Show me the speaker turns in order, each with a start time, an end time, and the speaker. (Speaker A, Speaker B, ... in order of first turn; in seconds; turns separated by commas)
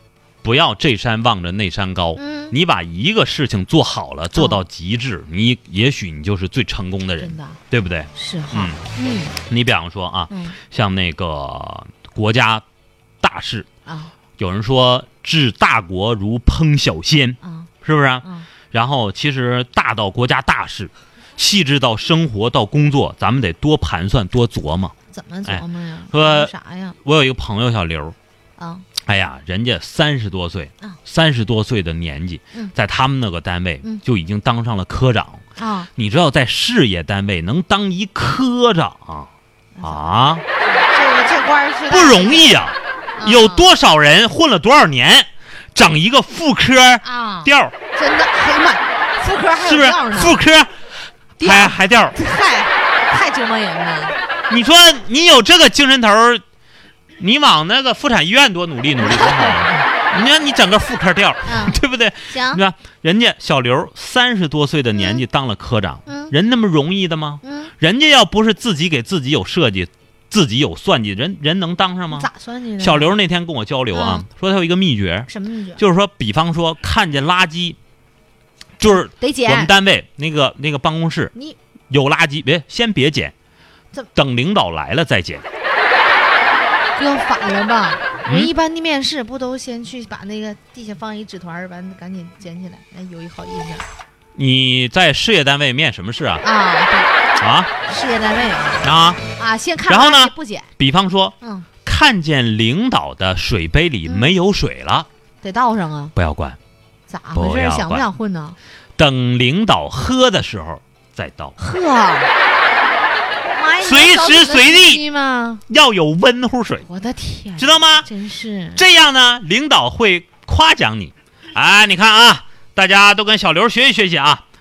Speaker A: 0.4-8.8, Speaker B: 2.2-2.5, Speaker B: 4.3-4.6, Speaker B: 7.2-7.6, Speaker B: 8.2-9.3, Speaker A: 9.5-12.6, Speaker B: 10.3-10.6, Speaker A: 13.2-13.7, Speaker B: 13.9-14.1, Speaker A: 14.4-24.9, Speaker B: 17.4-17.7, Speaker B: 25.1-27.0, Speaker A: 25.4-28.1, Speaker B: 28.6-28.9, Speaker A: 29.0-35.4, Speaker B: 35.6-35.9, Speaker A: 36.0-39.3, Speaker B: 39.8-42.6, Speaker A: 39.8-40.4, Speaker A: 41.9-47.7, Speaker B: 43.2-43.7, Speaker B: 47.0-50.4, Speaker A: 49.6-50.7, Speaker B: 51.4-54.2, Speaker A: 51.4-52.2, Speaker A: 54.5-56.4, Speaker A: 57.2-72.3, Speaker B: 59.0-59.9, Speaker B: 61.5-62.6, Speaker B: 64.9-65.2, Speaker B: 66.1-66.3, Speaker B: 67.4-67.7, Speaker B: 72.1-73.1, Speaker A: 72.8-77.8, Speaker B: 73.9-74.2, Speaker B: 75.3-75.8, Speaker A: 78.8-81.3, Speaker B: 78.9-79.7, Speaker A: 81.9-83.3, Speaker A: 84.1-85.5, Speaker B: 86.9-93.9, Speaker A: 94.4-96.4, Speaker B: 96.4-97.1, Speaker A: 97.4-97.7, Speaker B: 97.9-100.7, Speaker A: 98.8-99.2, Speaker A: 99.9-105.1, Speaker B: 101.4-101.7, Speaker B: 104.1-104.3, Speaker B: 105.4-106.1, Speaker A: 106.2-106.6, Speaker B: 107.1-108.6, Speaker A: 107.3-108.0, Speaker A: 109.0-111.5, Speaker B: 111.6-112.3, Speaker B: 113.5-115.6, Speaker A: 113.8-115.0, Speaker A: 115.7-116.9, Speaker B: 116.8-118.8, Speaker A: 117.6-118.1, Speaker A: 118.8-124.4